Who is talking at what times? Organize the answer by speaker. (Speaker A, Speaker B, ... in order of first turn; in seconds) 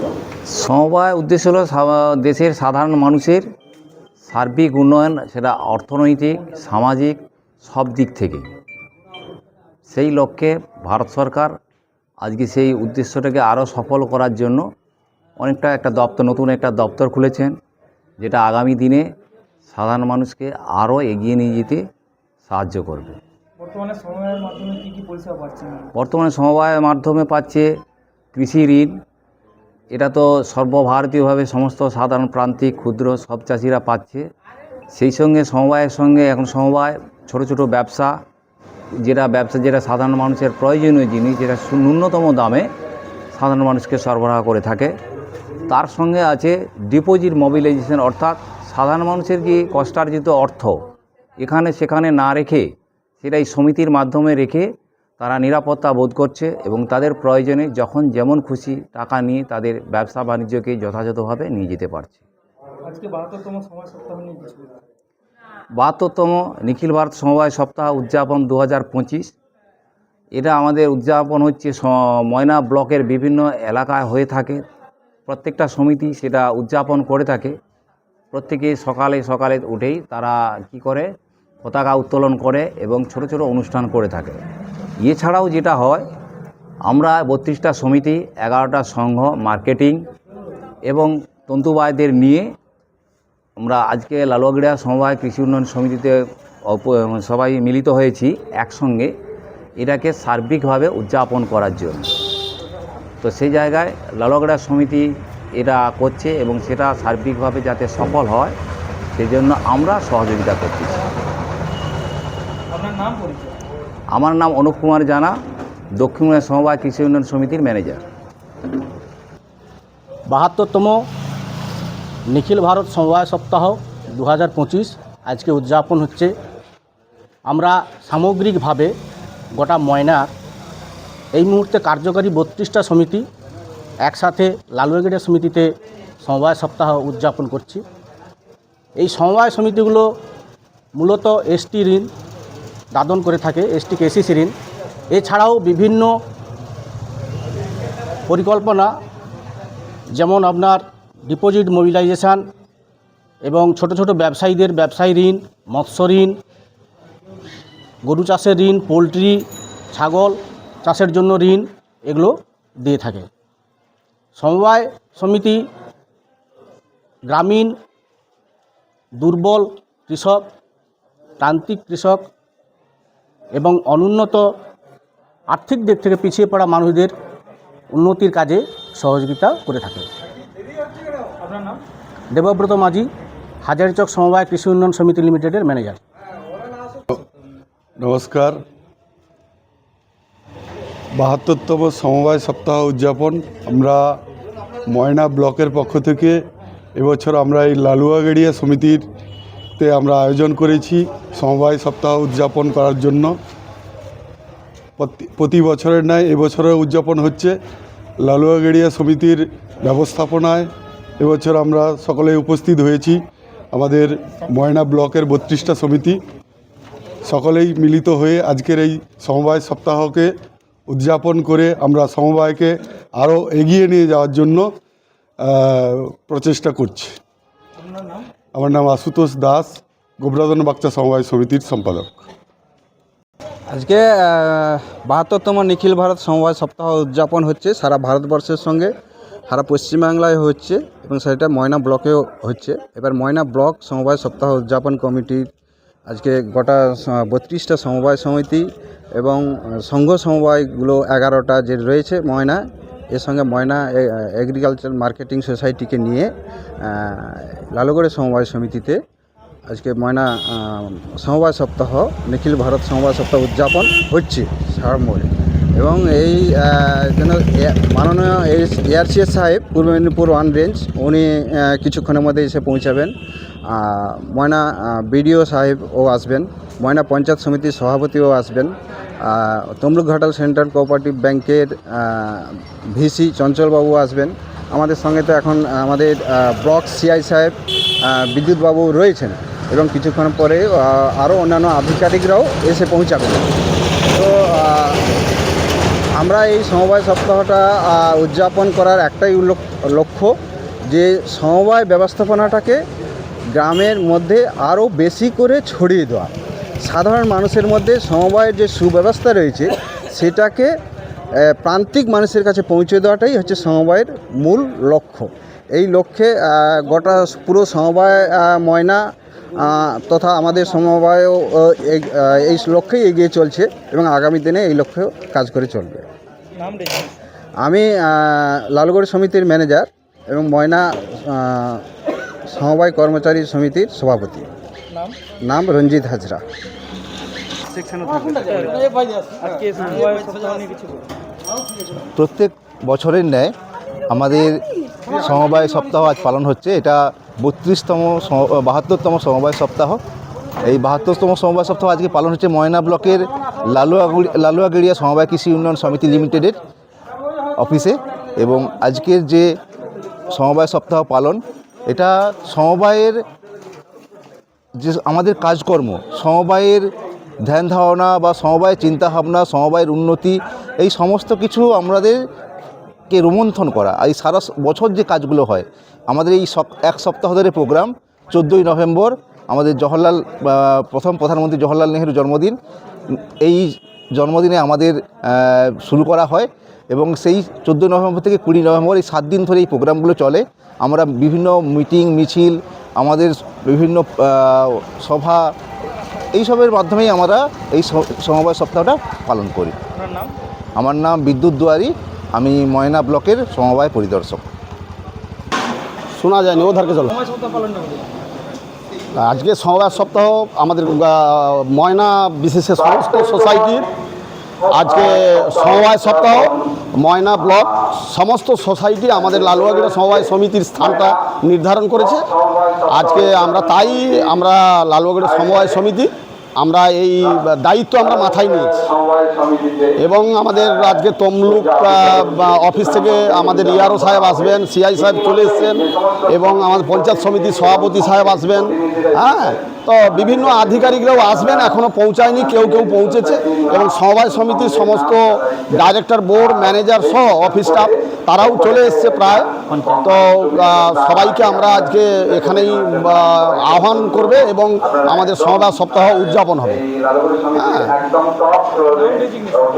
Speaker A: 0.5-3.5, 4.2-8.5, 9.9-11.5, 12.2-14.6, 15.4-17.5, 18.2-19.0, 19.7-21.8, 22.5-23.2, 25.9-27.7, 28.3-28.9, 29.9-34.2, 34.9-38.1, 39.0-42.7, 43.3-44.9, 45.7-50.8, 51.4-52.7, 53.2-54.7, 55.2-62.2, 65.8-69.3, 70.3-74.6, 75.3-77.5, 78.3-81.1, 81.6-84.4, 85.0-86.0, 86.8-90.0, 90.9-92.5, 93.6-99.1, 99.8-102.2, 103.2-108.5, 109.1-111.0, 114.1-115.3, 116.0-118.0
Speaker B: 23.6-25.9, 62.8-64.7, 112.7-113.5, 181.4-181.8, 326.6-327.1, 338.4-338.8, 339.4-340.8, 407.3-408.0, 458.9-459.5
Speaker C: 120.3-121.1, 122.3-126.3, 127.5-128.9, 129.5-130.3, 131.3-133.2, 134.0-135.7, 136.2-137.8, 139.0-140.1, 140.9-142.1, 142.9-144.5, 145.1-146.1, 148.3-148.9, 150.1-152.4, 153.4-156.4, 158.0-163.3, 164.4-165.7, 167.3-167.8, 169.2-170.4, 171.4-172.3, 173.5-174.5, 175.5-177.1, 177.9-180.1, 182.3-183.1, 183.6-186.0
Speaker D: 188.0-188.6, 191.2-194.2, 194.9-196.4, 196.9-199.0, 199.8-203.3, 205.0-207.5, 208.2-210.7, 211.2-213.2, 213.7-216.2, 217.2-220.3, 220.9-224.7, 225.4-227.2, 228.5-232.2
Speaker E: 233.7-238.9, 239.5-245.5, 246.1-259.0, 259.7-273.1, 273.7-293.5, 294.1-295.1, 296.1-300.3, 300.9-302.8, 303.5-310.7, 311.4-319.0, 319.6-326.1, 327.6-331.8, 332.5-334.5, 335.4-336.4
Speaker F: 342.1-343.5, 344.1-350.0, 350.6-356.6, 357.6-359.5, 360.3-363.2, 364.8-366.8, 367.4-372.2, 373.1-382.6, 383.1-395.5, 396.3-399.8, 400.8-404.5
Speaker G: 406.1-407.1, 409.1-413.9, 414.7-429.0, 430.0-456.8, 457.6-458.0